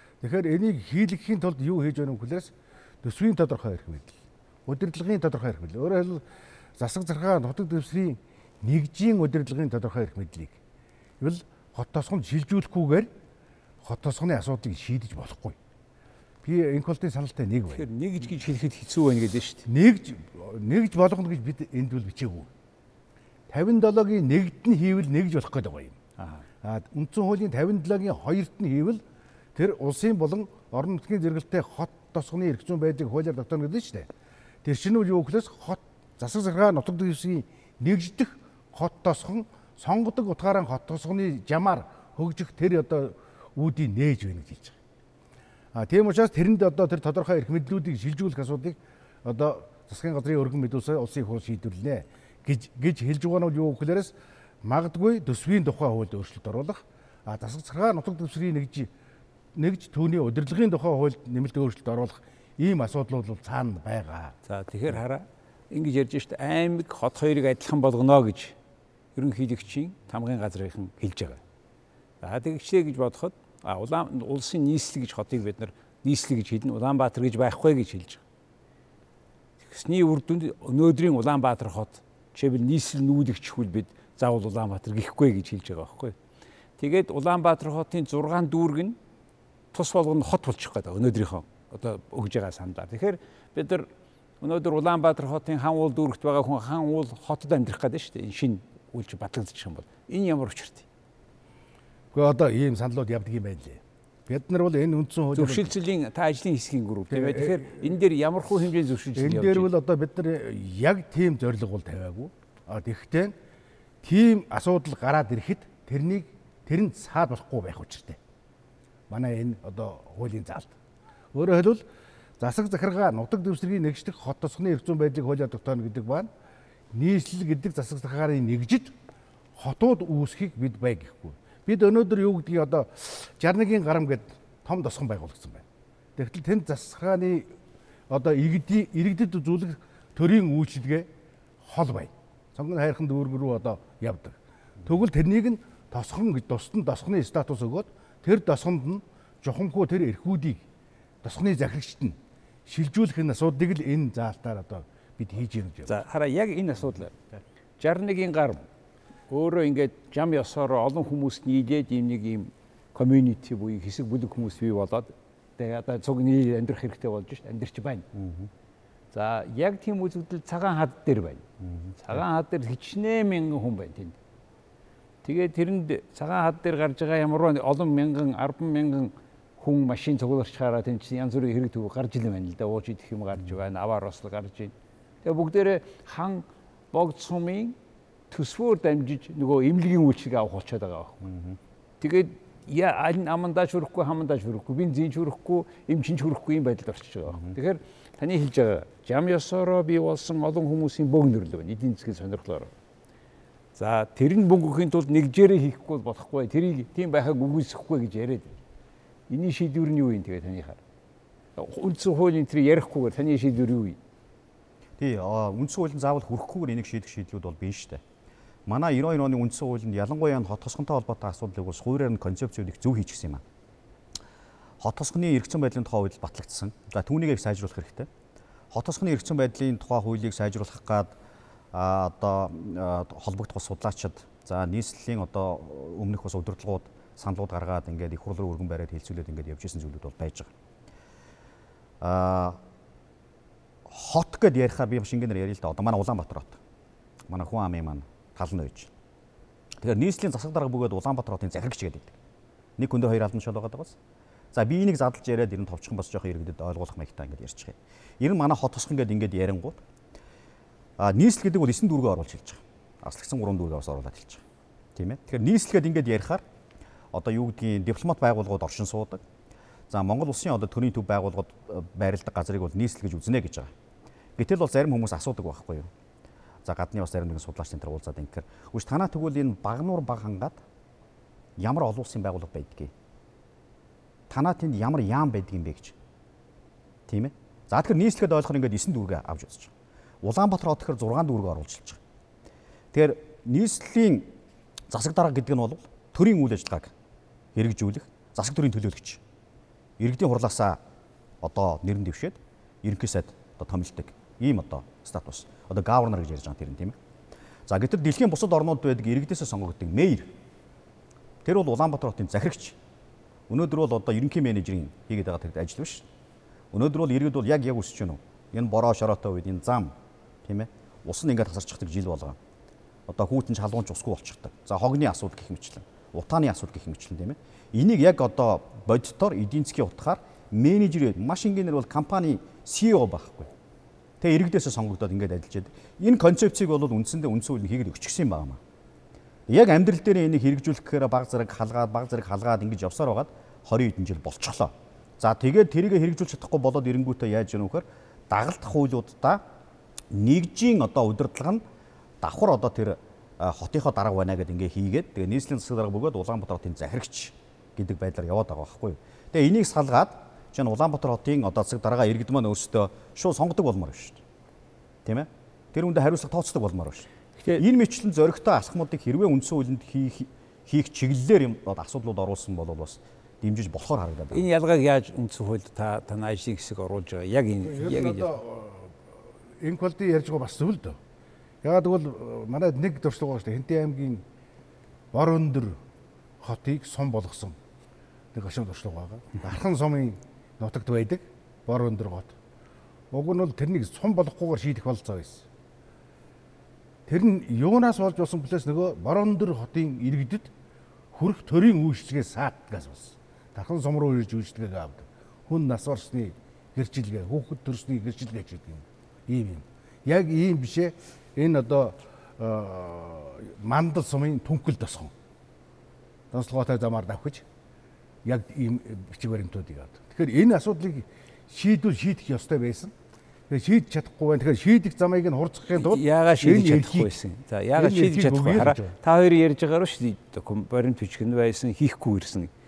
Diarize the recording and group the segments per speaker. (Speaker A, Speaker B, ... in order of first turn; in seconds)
Speaker A: 0.2-2.5, 3.0-4.1, 4.7-6.2, 6.8-10.6, 11.2-13.1, 13.8-15.6, 16.4-17.8, 19.6-22.5, 23.5-25.9, 26.6-29.0, 29.5-34.1, 34.6-44.8, 45.7-58.9, 59.5-64.3, 102.1-105.7, 107.1-107.8, 109.1-113.3, 114.0-118.2, 119.1-120.7, 121.3-121.8, 122.4-126.3, 126.9-128.9, 129.6-135.6, 136.2-137.5, 138.1-141.1, 141.6-150.6, 151.2-155.9, 377.6-379.0, 379.6-381.0, 381.6-384.2, 385.1-385.8, 386.4-387.6, 388.3-392.3, 393.1-395.5, 397.1-400.5, 401.1-415.1, 416.3-417.4, 418.2-422.9, 423.5-427.1, 427.8-428.9
Speaker B: 17.7-19.6, 64.5-68.5, 69.2-71.4, 72.2-78.2, 79.6-86.2, 86.8-89.0, 89.7-93.9, 94.4-100.8, 105.3-109.7, 155.9-157.2, 157.8-158.7, 159.3-168.1, 169.1-171.4, 172.0-174.1, 175.2-184.7, 185.2-187.7, 188.3-191.2, 192.0-202.7, 203.8-208.5, 209.3-210.8, 211.6-214.0, 374.3-378.3, 425.7-432.5
Speaker C: 168.1-168.5, 171.6-171.9, 191.2-191.6, 215.0-218.0, 218.7-223.4, 224.8-228.1, 228.7-231.1, 231.7-240.5, 242.0-242.6, 243.9-246.6, 247.3-248.9, 249.8-252.2, 252.8-253.9, 254.5-259.8, 261.0-264.4, 264.9-266.4, 267.1-269.2, 269.9-273.7, 274.4-275.9, 276.6-280.6, 281.6-282.9, 284.3-285.9, 287.1-289.7, 290.2-292.0, 292.9-294.3, 294.9-296.9, 297.5-299.2, 300.0-300.8, 301.4-307.0, 307.7-310.3, 311.4-312.8, 313.5-316.0, 316.7-322.4, 323.1-333.5, 334.2-338.6, 339.5-349.4, 350.1-351.6, 352.2-364.2, 365.1-374.5